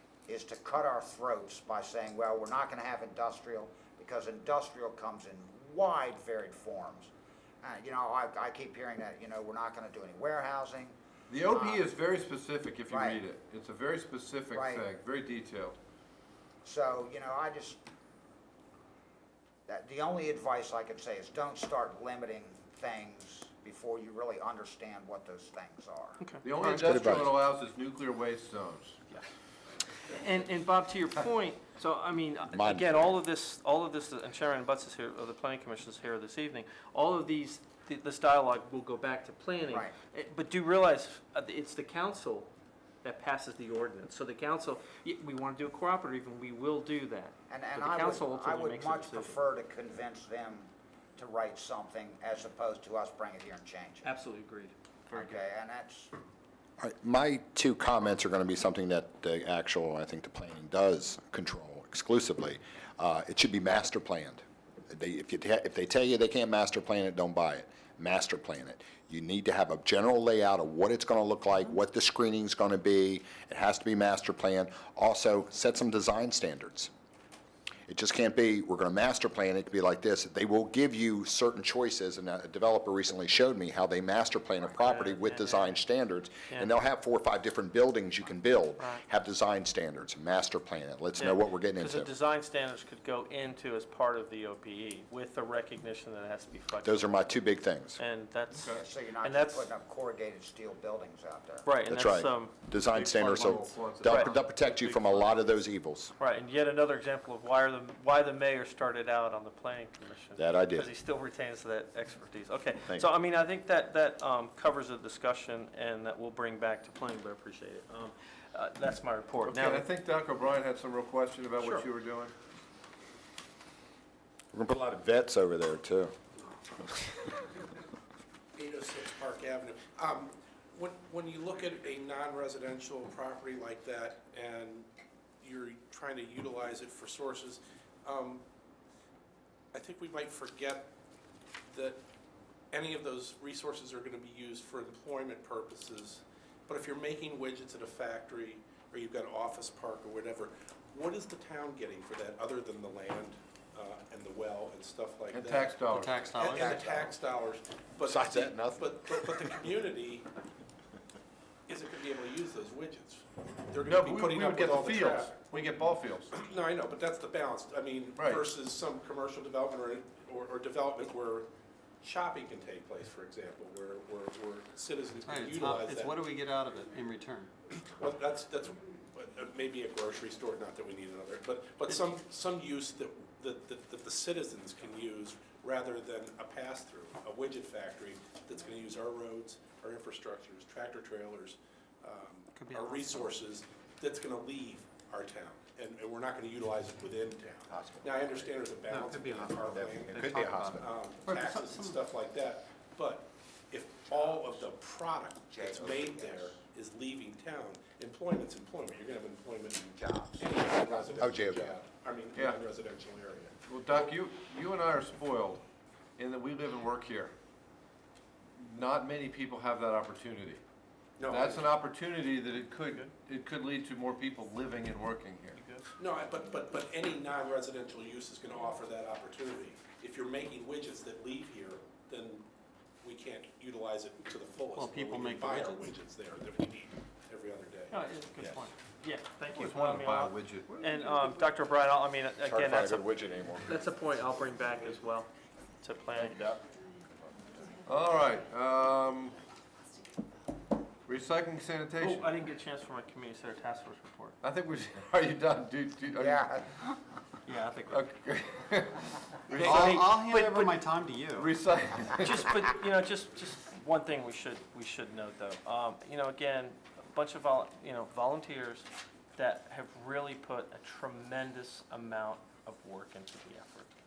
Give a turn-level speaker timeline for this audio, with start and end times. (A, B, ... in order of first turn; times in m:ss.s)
0:00.3-0:11.8 A
0:11.3-0:15.8 B
0:12.9-0:13.2 A
0:14.5-0:14.9 A
0:16.6-0:17.8 A
0:19.7-0:26.2 A
0:26.2-0:26.8 C
0:26.4-0:29.0 B
0:26.6-0:27.3 D
0:29.9-0:42.5 C
0:32.5-0:33.0 D
0:39.7-0:39.9 A
0:43.0-0:49.4 C
0:47.5-0:54.1 A
0:54.0-0:55.4 C
0:55.1-0:56.1 A
0:56.8-1:16.9 D
1:17.9-1:32.1 D
1:24.8-1:25.8 C
1:31.2-1:37.4 C
1:36.8-1:38.0 D
1:38.0-1:39.7 C
1:38.5-1:38.8 B
1:38.7-1:41.7 A
1:41.6-1:44.9 C
1:41.9-1:46.1 D
1:42.9-1:44.4 B
1:46.2-1:59.8 C
1:50.4-1:50.9 D
1:59.4-2:02.3 B
2:01.6-2:01.9 C
2:04.5-2:06.1 D
2:06.8-2:07.1 D
2:08.5-2:14.9 E
2:15.4-2:18.4 E
2:19.7-2:20.9 E
2:21.7-2:22.0 E
2:22.7-2:40.3 E
2:35.3-2:36.3 B
2:35.9-2:37.1 F
2:38.1-2:38.5 D
2:38.2-2:38.7 B
2:41.7-2:45.5 E
2:43.8-2:46.3 B
2:46.3-2:51.5 E
2:48.2-2:48.4 B
2:52.0-2:56.2 E
2:55.2-2:57.5 F
2:57.9-3:34.1 E
3:12.6-3:13.2 F
3:17.7-3:18.3 D
3:18.9-3:22.0 F
3:19.7-3:20.8 D
3:25.5-3:26.6 A
3:30.0-3:31.2 A
3:31.2-3:31.8 D
3:33.7-3:35.6 B
3:36.2-3:37.3 B
3:38.6-3:40.6 B
3:41.2-3:41.7 E
3:41.3-3:45.6 B
3:45.6-3:45.8 C
3:46.0-3:52.5 E
3:53.0-3:58.0 E
3:54.8-3:55.9 C
3:57.9-4:03.0 C
3:58.4-3:58.6 D
3:59.5-4:01.0 B
4:02.4-4:03.8 D
4:03.6-4:05.3 C
4:05.8-4:06.4 C
4:06.1-4:06.6 D
4:07.8-4:09.4 B
4:11.0-4:12.3 B
4:12.0-4:14.4 C
4:14.4-4:16.5 B
4:16.1-4:17.0 A
4:17.5-4:17.8 C
4:17.5-4:18.0 F
4:17.9-4:20.1 B
4:19.5-4:20.8 C
4:19.6-4:21.5 F
4:21.4-4:22.5 B
4:22.2-4:33.9 C